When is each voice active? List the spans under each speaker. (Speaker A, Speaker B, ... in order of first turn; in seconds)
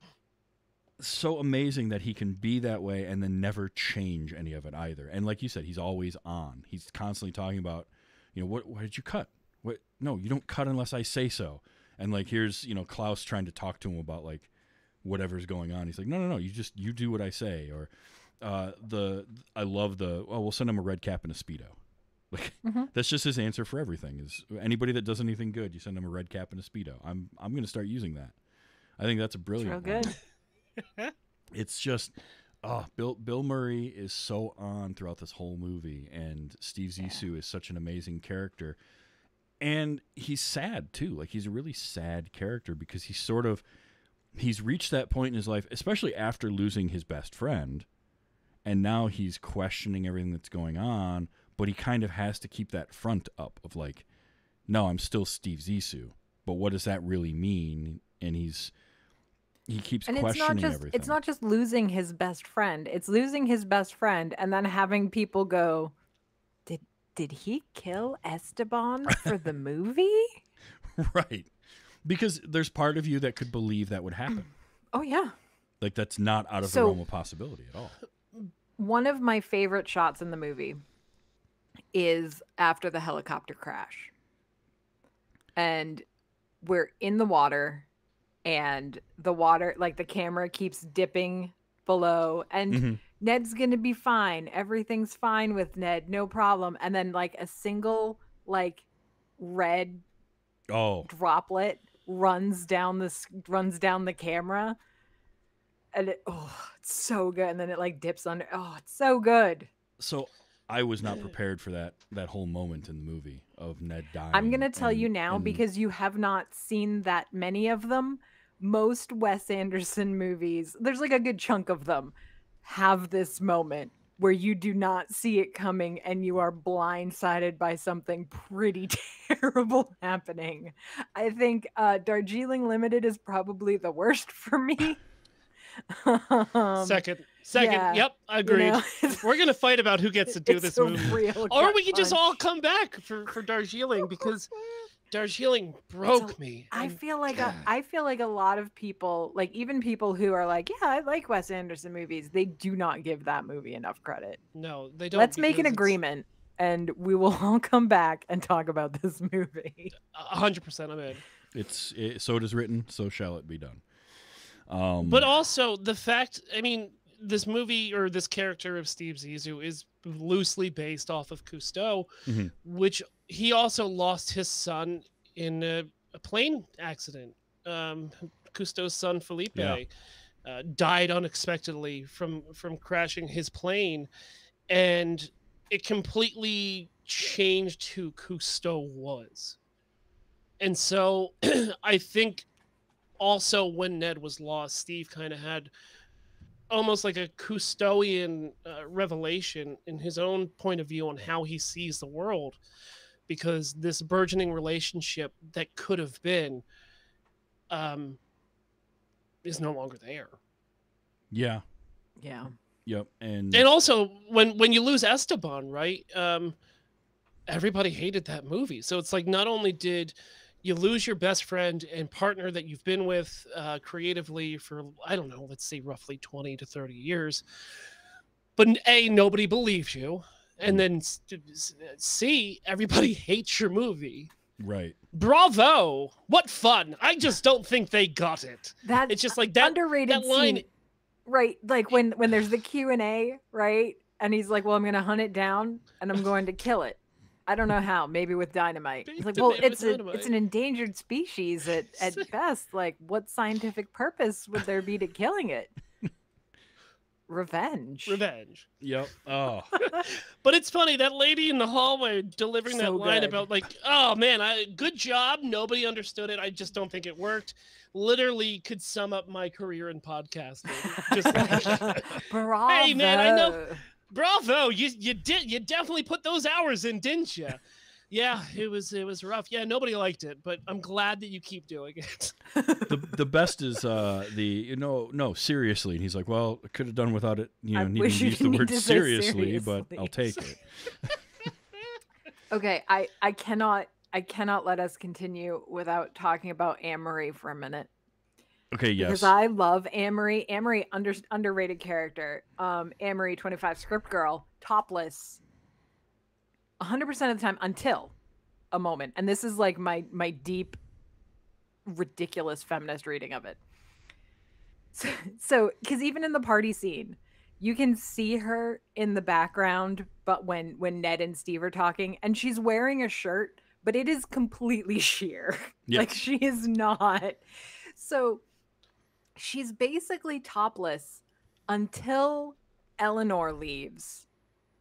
Speaker A: 1.0-14.5, 15.0-17.9, 18.4-21.7, 22.3-28.4, 29.0-30.1, 31.6-38.8, 39.6-43.6, 44.3-47.9, 48.6-54.0, 54.7-58.7, 59.7-61.2, 71.0-71.5, 72.0-74.5, 75.8-78.0, 92.7-93.0, 100.7-101.1, 110.0-115.6, 161.6-163.8, 164.7-165.3, 172.3-172.5, 179.6-179.8, 211.3-211.6, 212.9-213.7, 234.6-235.0, 258.8-259.8, 282.9-290.6, 298.7-299.3, 325.9-326.1
Speaker B: 22.6-22.9, 29.6-30.2, 60.1-65.9, 66.7-70.4, 74.9-75.3, 76.6-77.0, 78.8-80.8, 81.9-84.1, 85.5-86.0, 86.6-87.9, 88.4-98.8, 99.4-100.0, 101.1-104.8, 105.9-109.7, 114.3-135.0, 135.9-137.0, 137.6-139.2, 140.3-142.4, 146.1-154.4, 155.1-159.9, 212.2-212.5, 238.8-240.7, 241.3-255.7, 257.3-258.2, 262.7-263.5, 271.1-273.8, 282.5-283.1, 287.7-290.3, 292.5-297.9, 299.0-305.4, 306.8-308.1, 308.7-310.8, 311.8-313.6, 314.9-327.4, 327.9-328.4, 329.4-334.3
Speaker C: 136.8-144.5, 145.1-147.0, 154.6-155.9, 160.1-161.2, 165.0-172.1, 172.6-179.9, 180.4-184.1, 184.7-189.6, 190.6-192.4, 193.2-195.7, 196.7-202.6, 203.3-206.6, 207.7-208.2, 209.4-210.3, 213.5-216.6, 217.5-227.4, 228.6-234.3, 235.1-240.6, 249.1-250.3, 258.1-258.7, 259.8-277.6, 278.1-282.4